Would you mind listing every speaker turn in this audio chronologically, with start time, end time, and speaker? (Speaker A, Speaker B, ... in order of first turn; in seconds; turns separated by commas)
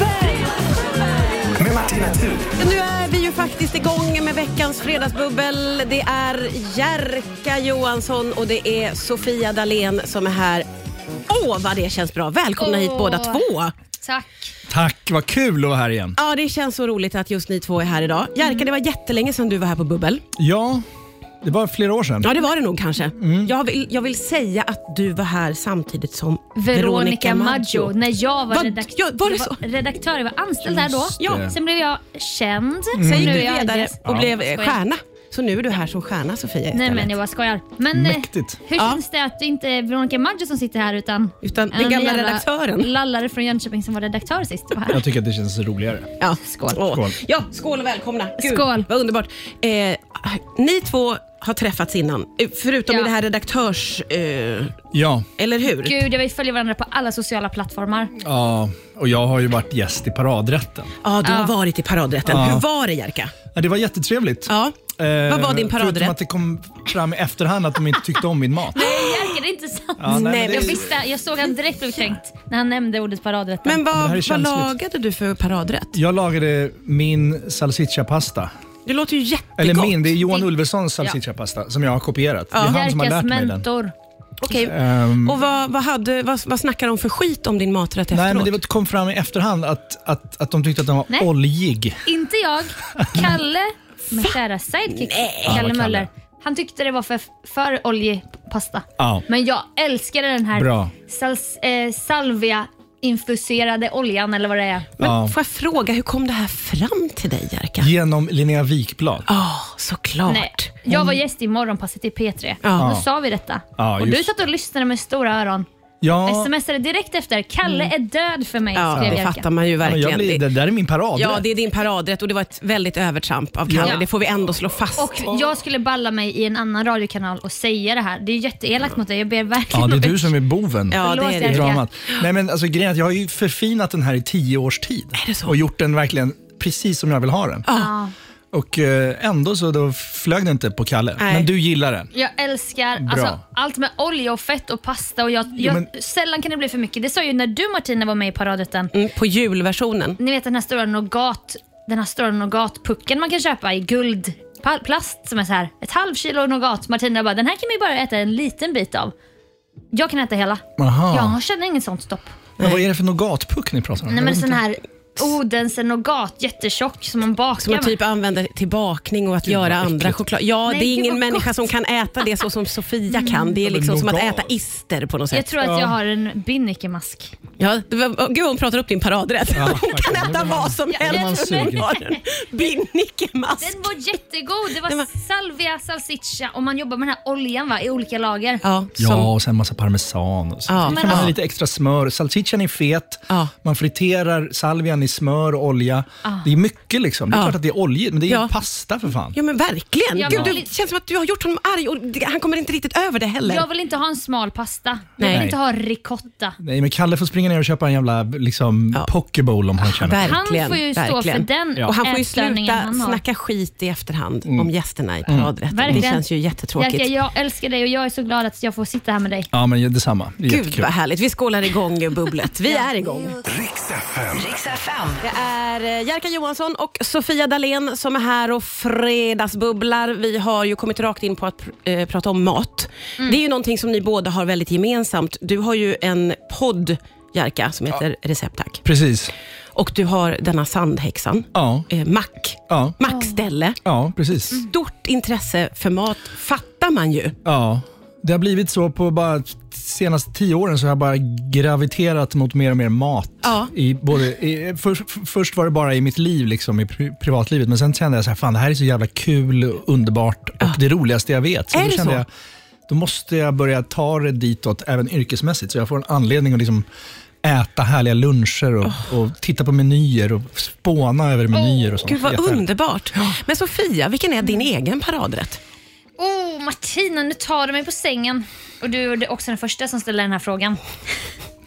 Speaker A: 1.6-2.5, Speaker B: 2.6-10.7, Speaker B: 11.3-13.7, Speaker C: 12.6-13.4, Speaker C: 14.0-14.3, Speaker D: 14.7-16.2, Speaker B: 16.2-20.2, Speaker D: 20.4-20.8, Speaker D: 21.4-22.3, Speaker B: 22.2-29.6, Speaker D: 23.1-23.5, Speaker C: 26.5-34.8, Speaker D: 30.7-31.6, Speaker B: 31.2-31.5, Speaker D: 32.9-33.5, Speaker B: 33.0-37.1, Speaker D: 34.0-34.3, Speaker C: 36.7-45.0, Speaker D: 37.9-38.6, Speaker B: 38.8-39.0, Speaker B: 41.4-42.9, Speaker D: 44.9-46.1, Speaker B: 46.2-54.8, Speaker C: 46.4-46.8, Speaker D: 46.8-47.1, Speaker C: 48.4-48.9, Speaker D: 54.9-55.3, Speaker B: 55.4-56.0, Speaker C: 55.7-58.1, Speaker D: 58.1-60.9, Speaker B: 61.0-63.3, Speaker C: 61.2-61.5, Speaker D: 62.2-62.6, Speaker D: 63.5-68.8, Speaker B: 64.5-66.2, Speaker C: 68.7-73.8, Speaker B: 68.8-69.2, Speaker D: 70.0-70.9, Speaker B: 70.1-70.9, Speaker B: 73.6-76.0, Speaker D: 73.9-74.7, Speaker D: 75.9-78.5, Speaker B: 78.8-80.5, Speaker D: 79.6-83.6, Speaker B: 82.5-82.8, Speaker C: 82.6-83.9, Speaker B: 84.4-88.5, Speaker D: 84.5-85.4, Speaker D: 88.1-92.0, Speaker C: 92.0-104.9, Speaker D: 92.9-93.3, Speaker B: 94.9-95.6, Speaker D: 95.5-96.1, Speaker D: 99.0-99.2, Speaker D: 100.5-100.9, Speaker B: 105.0-107.9, Speaker D: 105.0-105.3, Speaker D: 107.8-109.3, Speaker B: 109.3-111.2, Speaker C: 110.3-115.7, Speaker B: 112.6-112.9, Speaker D: 112.7-113.0, Speaker D: 113.8-114.3, Speaker D: 116.0-116.5, Speaker C: 116.2-119.5, Speaker B: 117.6-117.9, Speaker B: 118.7-120.4, Speaker D: 118.9-119.2, Speaker D: 119.8-121.5, Speaker B: 121.2-125.2, Speaker D: 123.7-124.0, Speaker C: 124.9-130.3, Speaker D: 125.2-125.5, Speaker D: 129.7-137.7, Speaker B: 130.9-132.2, Speaker C: 131.0-131.8, Speaker B: 135.2-135.6, Speaker B: 137.7-137.9, Speaker C: 137.7-138.1, Speaker D: 138.5-142.1, Speaker B: 141.2-141.5, Speaker C: 142.1-148.9, Speaker D: 143.0-143.4, Speaker D: 145.6-145.9, Speaker B: 148.9-150.2, Speaker C: 150.2-159.1, Speaker C: 159.9-162.3, Speaker D: 160.8-161.4, Speaker D: 162.6-164.6, Speaker C: 164.1-167.9, Speaker B: 167.6-175.6, Speaker D: 169.4-170.2, Speaker C: 170.7-171.5, Speaker C: 173.2-173.5, Speaker D: 173.5-174.5, Speaker C: 175.3-177.3, Speaker D: 175.6-175.9, Speaker B: 177.6-183.9, Speaker D: 179.5-181.9, Speaker C: 180.9-182.2, Speaker C: 183.6-188.6, Speaker B: 188.6-189.3, Speaker D: 189.0-199.3, Speaker B: 190.7-191.3, Speaker C: 190.8-191.3, Speaker C: 196.2-196.5, Speaker B: 197.3-197.6, Speaker B: 198.3-198.5, Speaker B: 199.3-203.7, Speaker C: 200.1-200.7, Speaker C: 203.4-206.6, Speaker B: 205.2-205.5, Speaker D: 205.2-205.6, Speaker D: 206.6-210.3, Speaker B: 209.8-217.1, Speaker C: 210.2-213.2, Speaker D: 215.2-216.1, Speaker C: 215.7-216.2, Speaker C: 216.8-219.5, Speaker D: 219.5-220.9, Speaker B: 220.5-223.4, Speaker A: 223.4-225.1, Speaker B: 225.2-238.8, Speaker D: 238.8-239.3, Speaker B: 239.7-243.8, Speaker D: 241.5-241.9, Speaker D: 242.7-242.9, Speaker C: 243.0-243.4, Speaker D: 243.8-244.6, Speaker B: 244.5-247.4, Speaker D: 247.4-262.3, Speaker B: 253.4-253.7, Speaker B: 261.7-262.2, Speaker D: 262.9-266.9, Speaker D: 267.4-272.6, Speaker B: 271.7-275.6, Speaker C: 276.2-280.8